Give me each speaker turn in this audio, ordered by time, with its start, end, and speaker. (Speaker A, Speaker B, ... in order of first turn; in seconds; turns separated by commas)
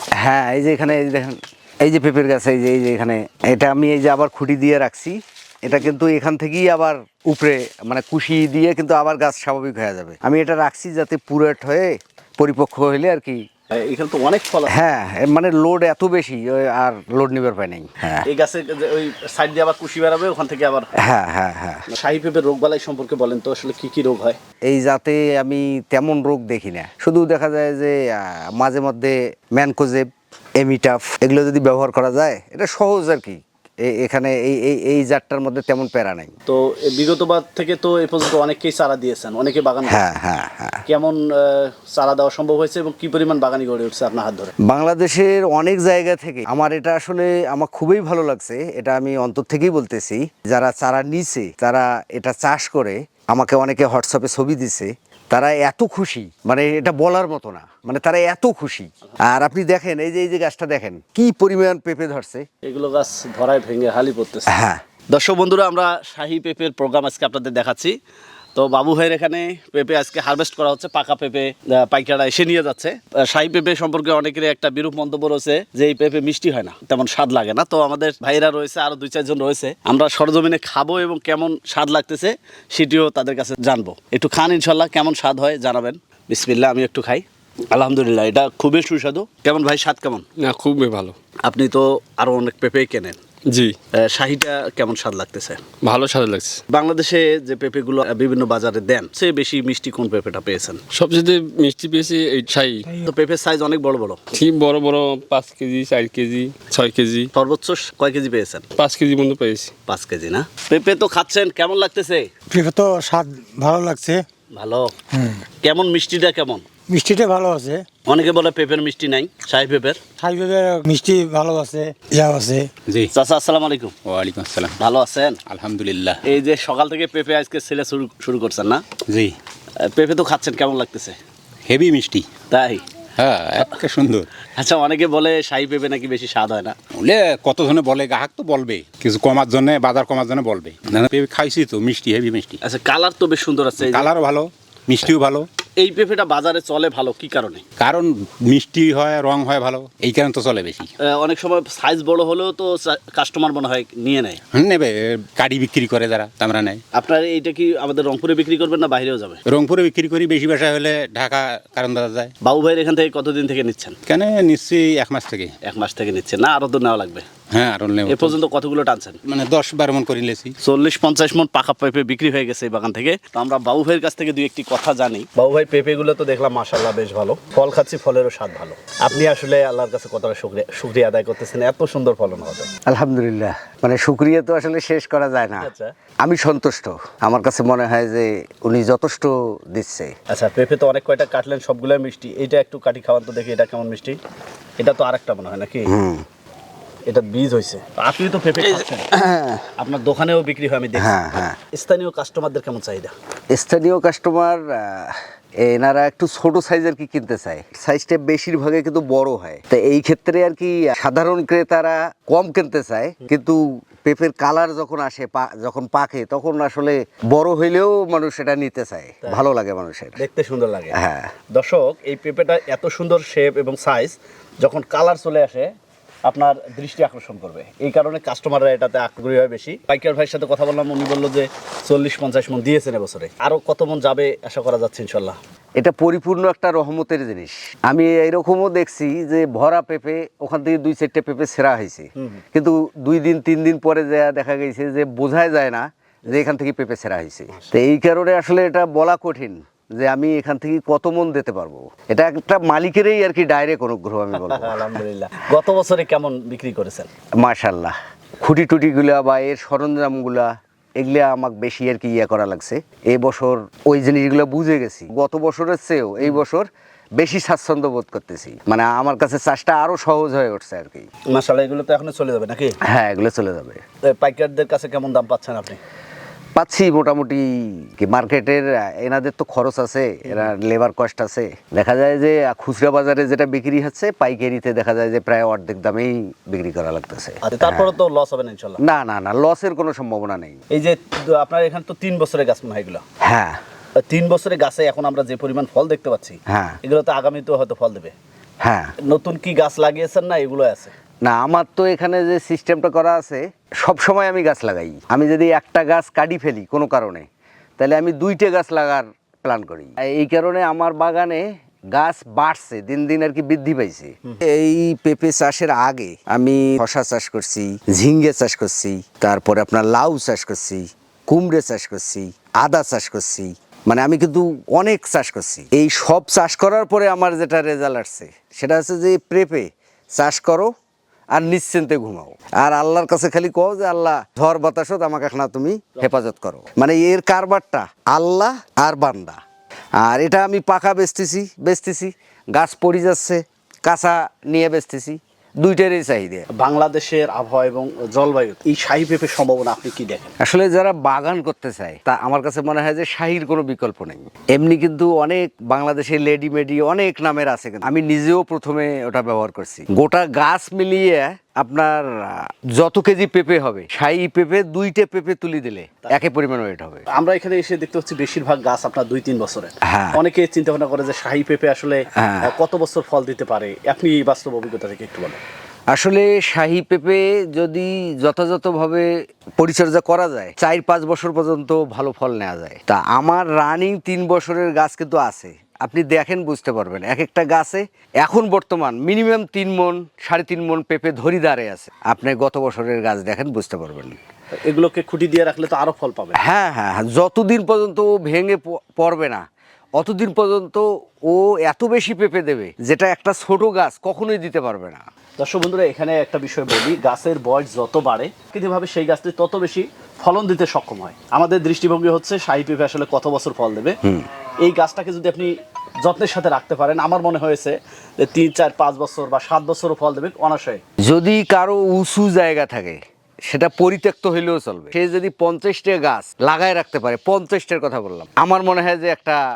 Speaker A: 0.2-13.4, Speaker B: 13.7-14.8, Speaker A: 14.7-18.3, Speaker B: 18.2-20.9, Speaker A: 21.0-21.9, Speaker B: 21.9-24.4, Speaker A: 24.6-36.3, Speaker B: 36.5-40.0, Speaker A: 39.8-40.8, Speaker B: 40.9-44.5, Speaker A: 44.6-62.4, Speaker B: 62.6-64.5, Speaker A: 64.5-64.8, Speaker B: 65.1-67.9, Speaker B: 68.5-90.2, Speaker C: 90.4-91.2, Speaker B: 91.5-93.2, Speaker C: 93.5-93.8, Speaker B: 93.9-95.6, Speaker C: 95.8-96.6, Speaker B: 96.7-100.8, Speaker C: 100.9-102.9, Speaker B: 103.0-104.2, Speaker C: 104.3-107.3, Speaker B: 107.3-108.7, Speaker C: 108.8-109.7, Speaker B: 109.8-112.3, Speaker D: 112.5-114.2, Speaker B: 114.5-114.9, Speaker D: 115.1-115.4, Speaker B: 115.6-116.7, Speaker D: 116.9-117.8, Speaker B: 118.0-120.0, Speaker D: 120.2-122.7, Speaker B: 123.1-123.9, Speaker E: 124.0-124.8, Speaker B: 124.8-125.4, Speaker E: 125.5-126.2, Speaker B: 126.2-128.8, Speaker E: 129.1-129.3, Speaker B: 129.8-131.2, Speaker E: 131.7-132.3, Speaker B: 132.5-132.8, Speaker E: 133.2-134.3, Speaker B: 134.6-136.8, Speaker E: 136.9-142.6, Speaker B: 142.6-144.1, Speaker E: 143.8-145.4, Speaker B: 145.8-147.6, Speaker E: 147.8-150.9, Speaker B: 151.0-154.4, Speaker E: 154.5-156.8, Speaker B: 156.9-159.4, Speaker E: 159.5-162.3, Speaker B: 162.4-164.0, Speaker E: 164.1-165.5, Speaker B: 165.6-167.3, Speaker E: 167.5-168.3, Speaker B: 168.1-169.2, Speaker E: 169.2-170.5, Speaker B: 170.6-182.7, Speaker A: 182.9-185.7, Speaker B: 185.6-185.9, Speaker A: 186.2-190.1, Speaker B: 190.3-194.2, Speaker B: 194.8-195.9, Speaker A: 195.8-196.2, Speaker B: 197.1-199.1, Speaker A: 199.1-199.7, Speaker B: 199.8-201.1, Speaker A: 200.9-201.6, Speaker B: 201.7-203.1, Speaker A: 203.5-220.2, Speaker B: 220.2-221.0, Speaker A: 220.9-221.3, Speaker B: 221.5-225.7, Speaker B: 226.2-235.4, Speaker A: 235.8-255.0, Speaker B: 254.4-257.1, Speaker A: 257.4-271.1, Speaker B: 271.3-272.8, Speaker A: 272.9-273.8, Speaker B: 274.1-275.8, Speaker A: 276.6-287.9, Speaker B: 287.4-288.8, Speaker A: 288.8-290.6, Speaker B: 290.7-293.0, Speaker A: 293.2-293.6, Speaker B: 294.0-298.1, Speaker A: 296.5-296.8, Speaker A: 298.6-298.9, Speaker B: 299.0-300.9, Speaker A: 301.2-307.3, Speaker A: 307.8-330.7, Speaker A: 331.3-339.4, Speaker A: 340.0-346.5, Speaker B: 346.5-350.3, Speaker A: 350.4-367.1, Speaker B: 367.1-375.4, Speaker A: 369.8-370.2, Speaker A: 372.1-372.5, Speaker A: 375.9-394.2, Speaker B: 394.7-396.4, Speaker A: 396.4-399.4, Speaker A: 400.0-405.0, Speaker B: 405.4-414.0, Speaker B: 414.6-420.8, Speaker A: 421.0-429.4